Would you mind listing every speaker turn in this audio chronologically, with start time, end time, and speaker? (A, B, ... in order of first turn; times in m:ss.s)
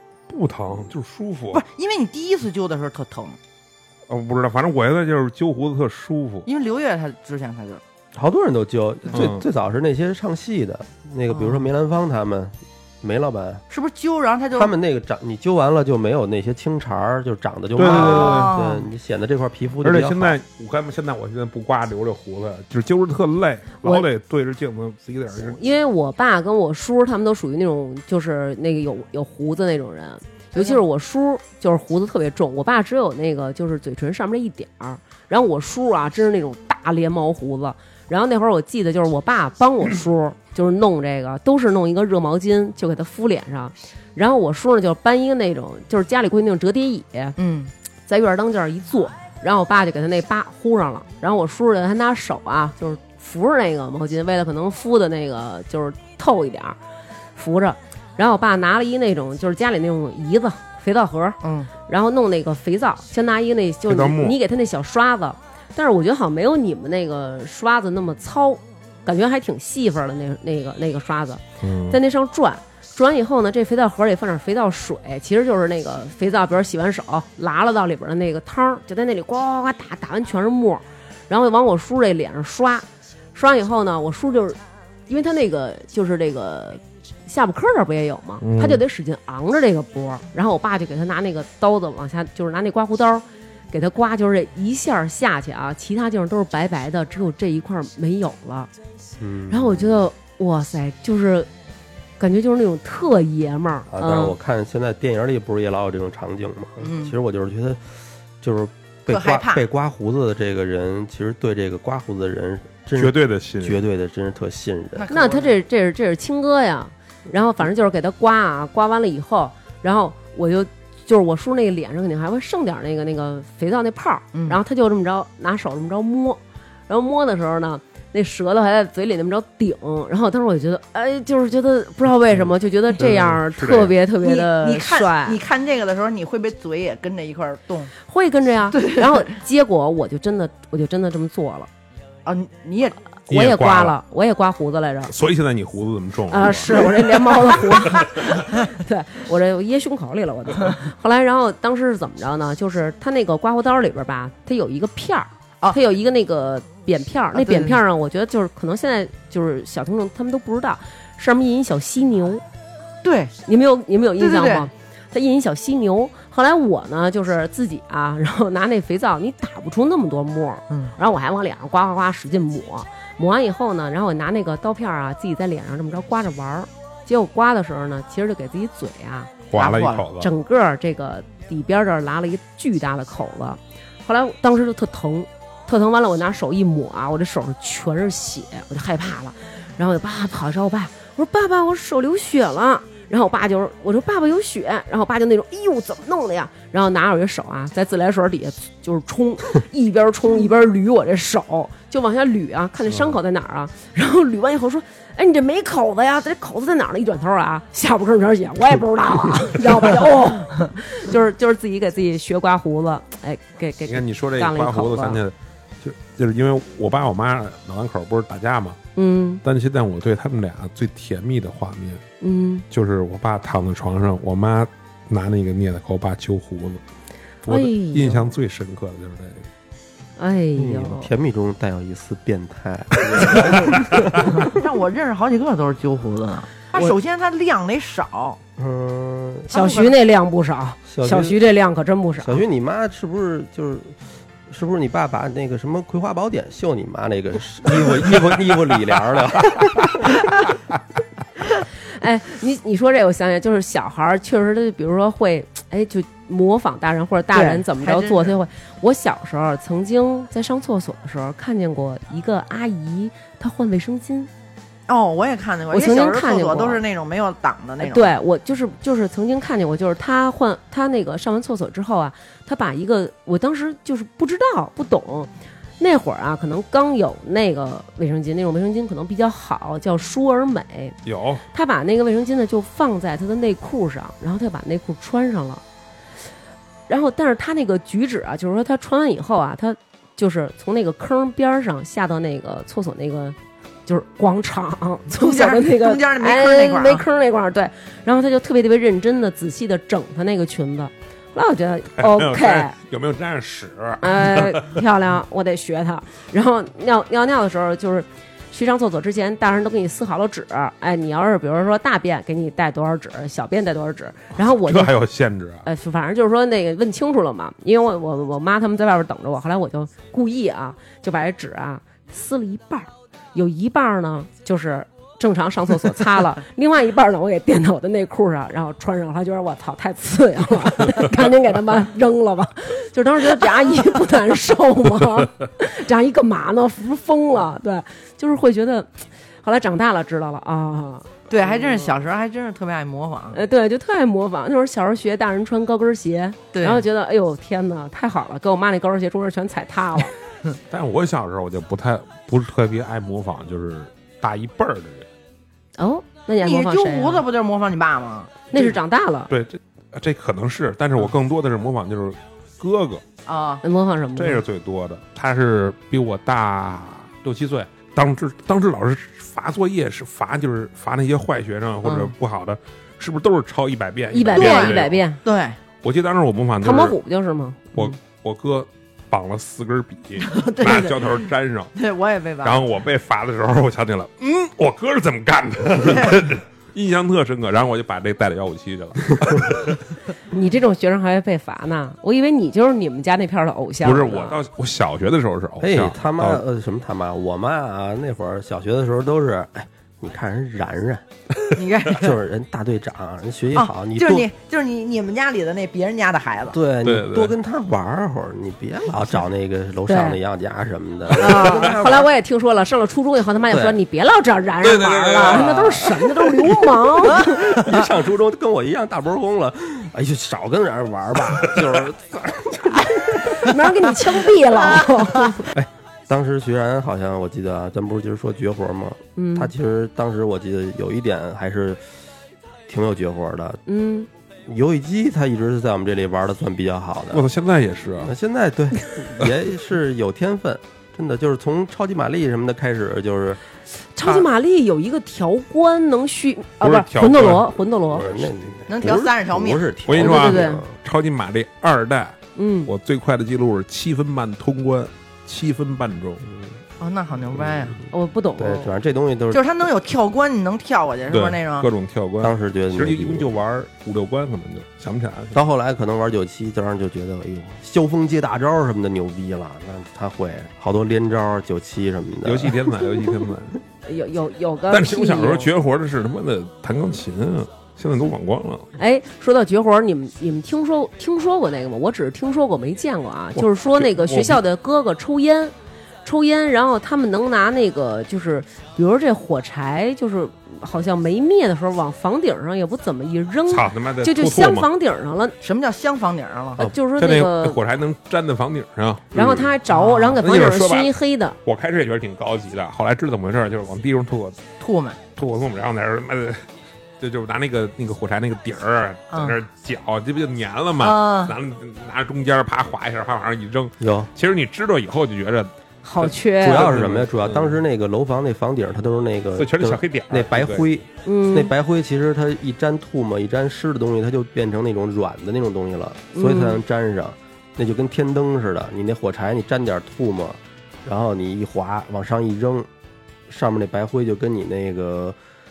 0:00.3-0:01.6 A
0:01.5-0:03.4 B
0:04.1-0:06.5 A
0:06.5-0:07.8 B
0:08.1-0:13.6 C
0:09.1-0:09.4 A
0:11.3-0:11.6 B
0:13.7-0:14.7 B
0:14.5-0:20.4 C
0:17.8-0:18.5 A
0:17.8-0:18.9 B
0:19.8-0:25.6 A
0:23.8-0:24.1 D
0:25.4-0:47.4 D
0:47.4-0:47.7 B
0:48.1-0:56.8 D
0:57.4-1:38.7 D
1:01.4-1:01.7 B
1:03.9-1:04.4 A
1:11.6-1:12.0 A
1:28.4-1:28.8 A
1:39.2-1:40.1 C
1:39.5-1:41.5 D
1:42.2-1:44.4 D
1:43.9-1:55.1 C
1:46.8-1:47.1 B
1:49.1-1:49.6 B
1:53.0-1:53.8 A
1:55.0-1:55.5 B
1:55.1-2:15.4 D
2:04.3-2:04.6 B
2:13.0-2:14.0 A
2:14.2-2:17.9 B
2:18.1-2:21.7 D
2:18.7-2:19.3 B
2:22.2-2:23.0 B
2:23.3-2:25.1 D
2:23.3-2:24.0 A
2:25.1-2:26.9 A
2:26.3-2:42.4 D
2:37.3-2:37.8 B
2:43.0-2:43.4 B
2:43.5-2:59.3 D
2:44.2-2:44.7 B
2:59.5-3:00.3 A
2:59.6-3:00.1 B
3:00.2-3:35.2 D
3:33.9-3:38.8 A
3:39.0-3:39.4 D
3:39.4-3:42.0 A
3:42.2-3:42.6 D
3:42.7-3:46.8 A
3:47.4-3:49.5 A
3:47.5-3:48.3 D
3:50.2-3:51.1 D
3:50.6-3:54.5 C
3:54.4-3:58.4 B
3:58.6-3:59.5 C
3:59.5-3:59.9 B
3:59.5-4:02.4 D
4:00.9-4:01.4 C
4:02.2-4:10.2 C
4:07.9-4:08.3 A
4:12.0-4:24.3 D
4:17.3-4:18.4 B
4:24.9-4:28.1 B
4:25.7-4:26.8 D
4:27.8-4:41.0 D
4:41.0-4:41.4 A
4:41.5-4:45.6 D
4:46.9-5:02.7 D
4:55.1-4:57.0 B
5:02.0-5:04.8 A
5:04.0-5:14.9 D
5:14.5-5:15.6 A
5:15.6-5:38.9 D
5:39.4-5:41.9 D
5:41.3-5:43.4 B
5:43.3-5:50.1 D
5:46.5-5:46.8 B
5:50.7-5:55.1 A
5:55.8-5:57.2 D
5:56.4-5:58.3 B
5:58.5-5:59.3 D
5:59.3-6:03.0 A
6:03.3-6:03.6 B
6:03.6-6:04.4 D
6:04.2-6:15.0 A
6:14.1-6:15.2 D
6:14.3-6:15.6 B
6:15.8-6:17.0 A
6:16.6-6:18.0 D
6:17.7-6:21.7 A
6:20.2-6:22.6 B
6:22.4-6:29.8 A
6:25.8-6:26.2 B
6:30.3-6:34.4 D
6:33.8-6:36.4 A
6:35.6-6:41.0 C
6:41.5-6:42.1 B
6:41.9-6:44.3 C
6:43.5-6:46.6 B
6:46.5-6:52.1 C
6:46.8-6:47.3 A
6:49.9-6:50.2 D
6:51.1-6:57.4 D
6:53.5-6:53.8 C
6:54.6-6:56.0 A
6:55.3-6:55.7 C
6:57.2-7:03.6 C
6:57.3-6:57.7 B
7:03.4-7:05.5 D
7:05.5-7:11.8 C
7:09.2-7:09.5 D
7:12.7-7:13.6 C
7:13.7-7:14.1 D
7:14.5-7:17.3 C
7:17.1-7:18.1 A
7:18.0-7:23.4 C
7:24.0-7:28.1 D
7:26.6-7:29.1 A
7:27.9-7:30.7 C
7:28.7-7:29.7 B
7:29.9-7:36.3 A
7:30.0-7:30.6 D
7:32.4-7:32.7 D
7:36.3-7:36.5 C
7:36.8-7:37.8 B
7:37.9-7:38.7 D
7:38.4-7:39.5 C
7:39.3-7:41.7 B
7:41.1-7:45.4 A
7:42.2-7:43.3 C
7:45.3-7:52.6 C
7:52.2-7:53.6 A
7:53.9-7:55.5 D
7:54.7-7:58.7 A
7:58.8-8:05.5 D
8:03.4-8:04.4 A
8:06.0-8:15.4 D
8:13.5-8:14.7 A
8:15.4-8:16.7 B
8:16.6-8:17.6 D
8:16.7-8:19.6 A
8:19.2-8:21.4 D
8:19.7-8:20.2 B
8:20.1-8:20.9 A
8:21.4-8:24.4 A
8:24.6-8:25.0 B
8:25.2-8:26.4 A
8:27.0-8:37.6 A
8:30.8-8:31.4 B
8:33.8-8:34.1 C
8:35.8-8:36.7 D
8:36.4-8:52.7 C
8:39.4-8:40.7 A
8:41.0-8:41.5 D
8:46.1-8:46.6 D
8:53.3-8:55.2 C